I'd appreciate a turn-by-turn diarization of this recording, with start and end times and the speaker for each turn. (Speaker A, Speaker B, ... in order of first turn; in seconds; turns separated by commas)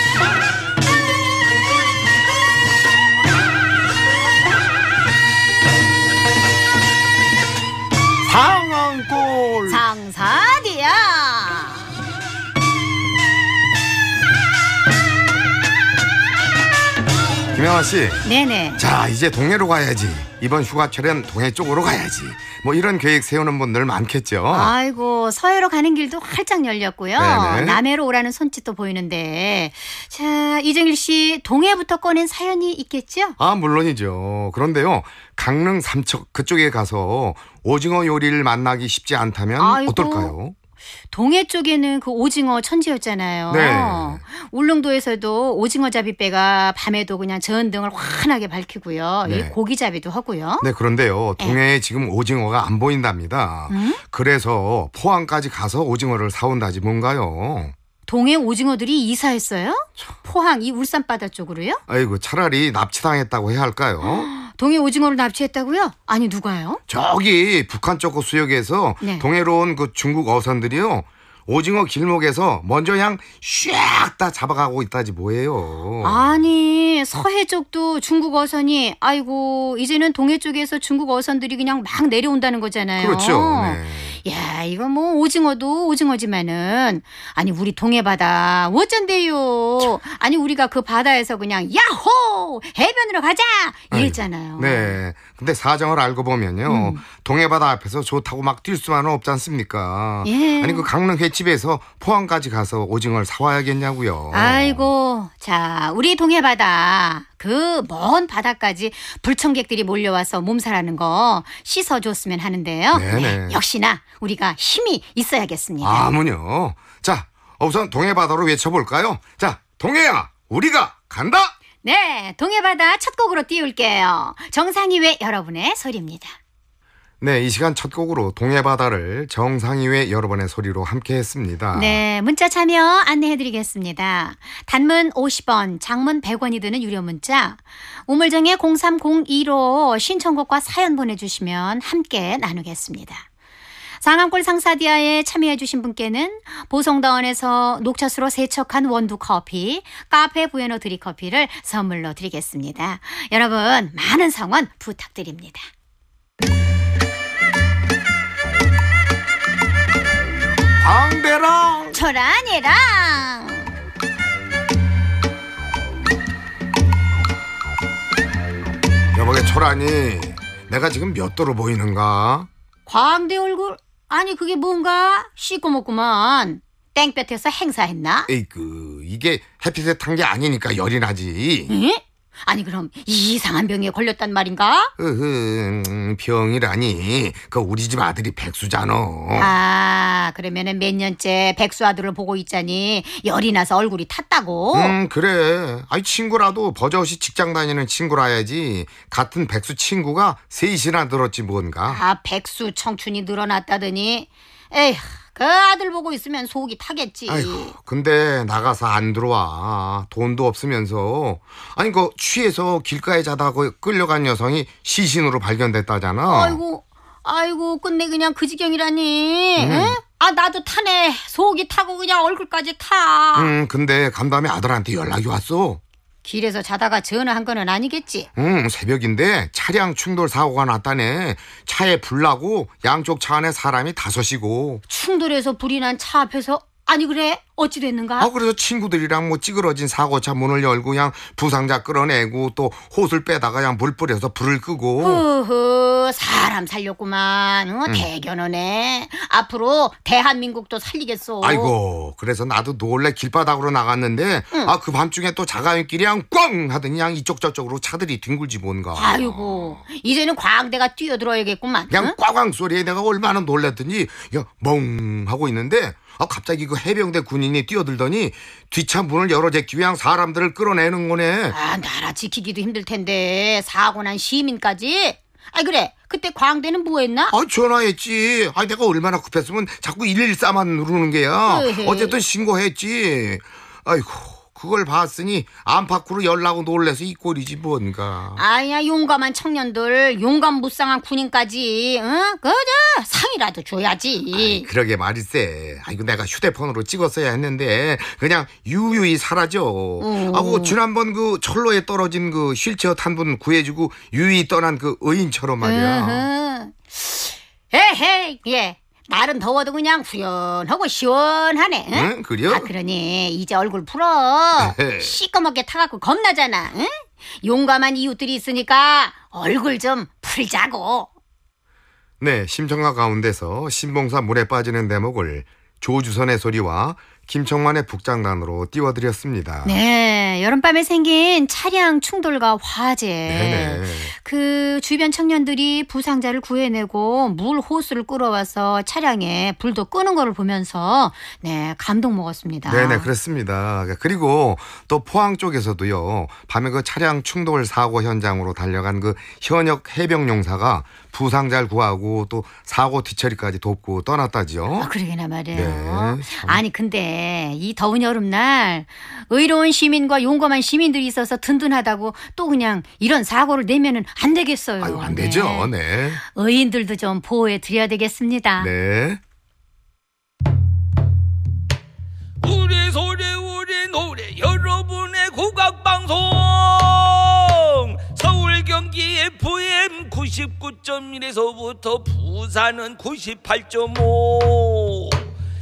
Speaker A: 8.2-9.8, Speaker B: 9.7-11.8, Speaker A: 17.5-18.2, Speaker B: 18.2-18.8, Speaker A: 18.8-24.7, Speaker B: 24.5-33.4, Speaker A: 27.1-27.8, Speaker A: 33.4-40.5, Speaker B: 39.6-40.3, Speaker B: 41.1-50.7, Speaker A: 43.5-44.2, Speaker A: 49.2-49.5, Speaker A: 50.6-57.7, Speaker B: 53.7-54.0, Speaker B: 58.1-61.8, Speaker A: 61.9-64.3, Speaker B: 64.0-66.8, Speaker A: 66.9-76.2, Speaker B: 76.0-95.0, Speaker A: 83.0-84.2, Speaker A: 93.9-104.9, Speaker B: 96.6-97.0, Speaker B: 100.2-100.9, Speaker B: 104.3-116.1, Speaker A: 112.9-113.6, Speaker A: 115.8-121.5, Speaker B: 121.8-126.4, Speaker A: 127.2-132.0, Speaker B: 131.7-143.2, Speaker B: 144.0-155.7, Speaker A: 160.8-162.0, Speaker B: 161.9-163.7, Speaker A: 169.1-172.5, Speaker B: 172.9-178.3, Speaker A: 178.3-181.7, Speaker B: 181.7-184.9, Speaker A: 185.0-189.5, Speaker B: 189.3-194.9, Speaker A: 194.7-202.0, Speaker B: 201.9-207.7, Speaker A: 207.3-216.6, Speaker B: 216.3-223.5, Speaker A: 219.6-220.0, Speaker A: 223.3-225.8, Speaker B: 226.2-228.3, Speaker A: 228.3-234.8, Speaker B: 234.9-238.3, Speaker A: 238.2-245.2, Speaker B: 245.0-251.7, Speaker A: 251.4-259.9, Speaker B: 258.9-262.1, Speaker A: 261.9-271.6, Speaker B: 271.5-277.3, Speaker A: 277.3-288.4, Speaker B: 281.4-282.2, Speaker B: 288.4-294.7, Speaker A: 294.3-306.3, Speaker B: 300.0-300.8, Speaker B: 305.6-321.1, Speaker A: 311.9-312.7, Speaker A: 314.6-315.1, Speaker A: 322.2-329.8, Speaker B: 329.6-343.1, Speaker A: 333.2-334.1, Speaker A: 342.7-354.9, Speaker B: 354.8-368.7, Speaker A: 355.5-356.6, Speaker A: 364.8-366.2, Speaker A: 368.6-369.2, Speaker C: 372.4-385.2